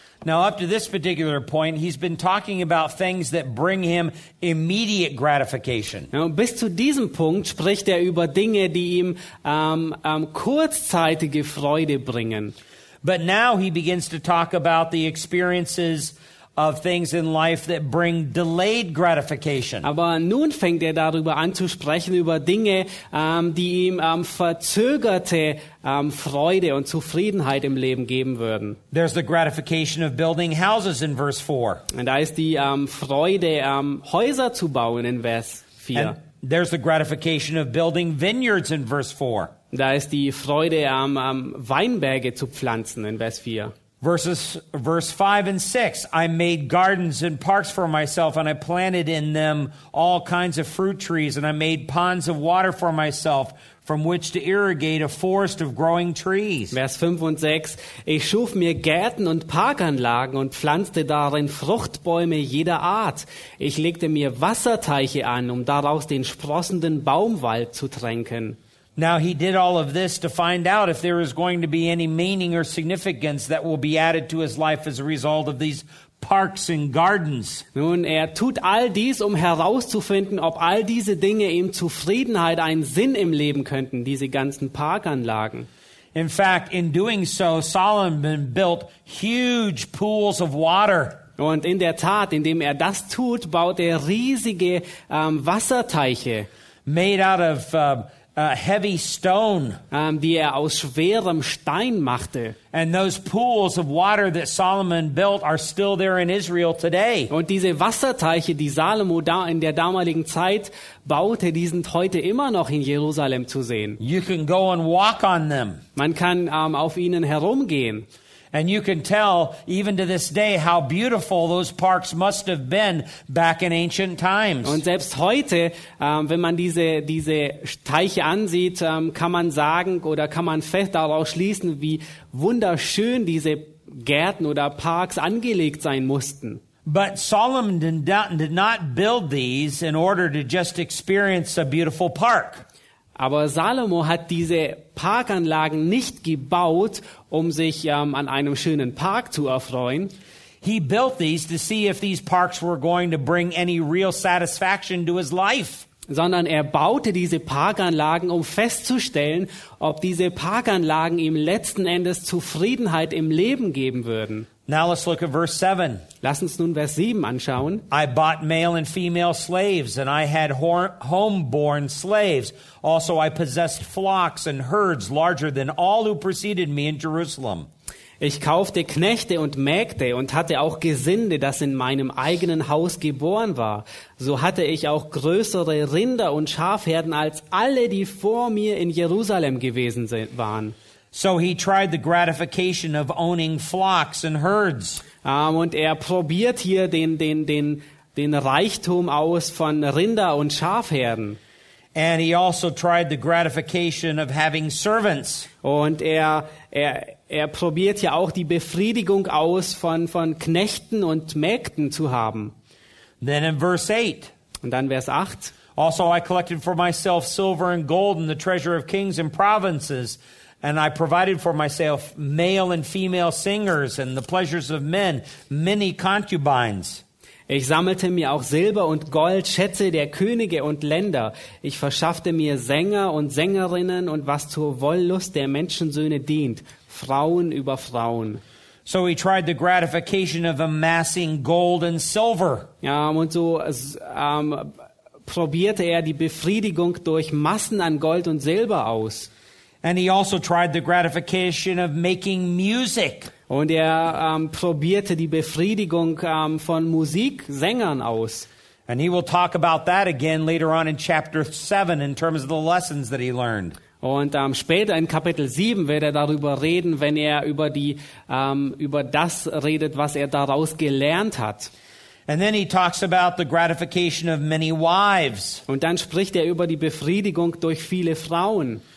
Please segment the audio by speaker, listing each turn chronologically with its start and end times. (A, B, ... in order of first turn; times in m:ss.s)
0:00.2-0:06.1 A
0:06.1-0:12.5 B
0:13.0-0:19.9 A
0:19.8-0:28.8 B
0:28.9-0:31.8 A
0:31.9-0:36.2 B
0:35.9-0:39.5 A
0:39.7-0:43.7 B
0:44.0-0:56.7 A
0:56.7-1:08.6 B
1:09.0-1:17.6 A
1:17.7-1:25.7 B
1:26.1-1:31.2 A
1:31.4-1:36.5 B
1:36.8-1:39.8 A
1:39.9-1:42.6 B
1:42.7-1:47.3 A
1:47.3-1:54.0 B
1:54.0-1:55.8 A
1:56.0-1:58.0 B
1:58.5-2:04.8 A
2:04.6-2:16.6 B
2:16.8-2:22.6 A
2:23.2-2:30.1 B
2:30.6-2:35.8 A
2:36.1-2:44.5 B
2:44.7-2:46.0 A
2:46.2-2:47.8 B
2:47.9-2:57.7 A
2:58.2-3:10.7 B
3:11.1-3:15.0 A
3:15.2-3:21.4 B
3:21.9-3:25.5 A
3:25.6-3:32.5 B
3:33.2-3:34.3 A
3:34.6-3:35.5 B
3:35.8-3:47.0 A
3:47.5-3:58.4 B
3:58.8-4:02.7 A
4:02.8-4:04.7 B
4:05.2-4:09.3 B
4:09.8-4:13.3 A
4:13.5-4:18.5 B
4:18.9-4:23.8 A
4:24.0-4:31.7 B
4:32.3-4:35.6 A
4:35.7-4:38.8 B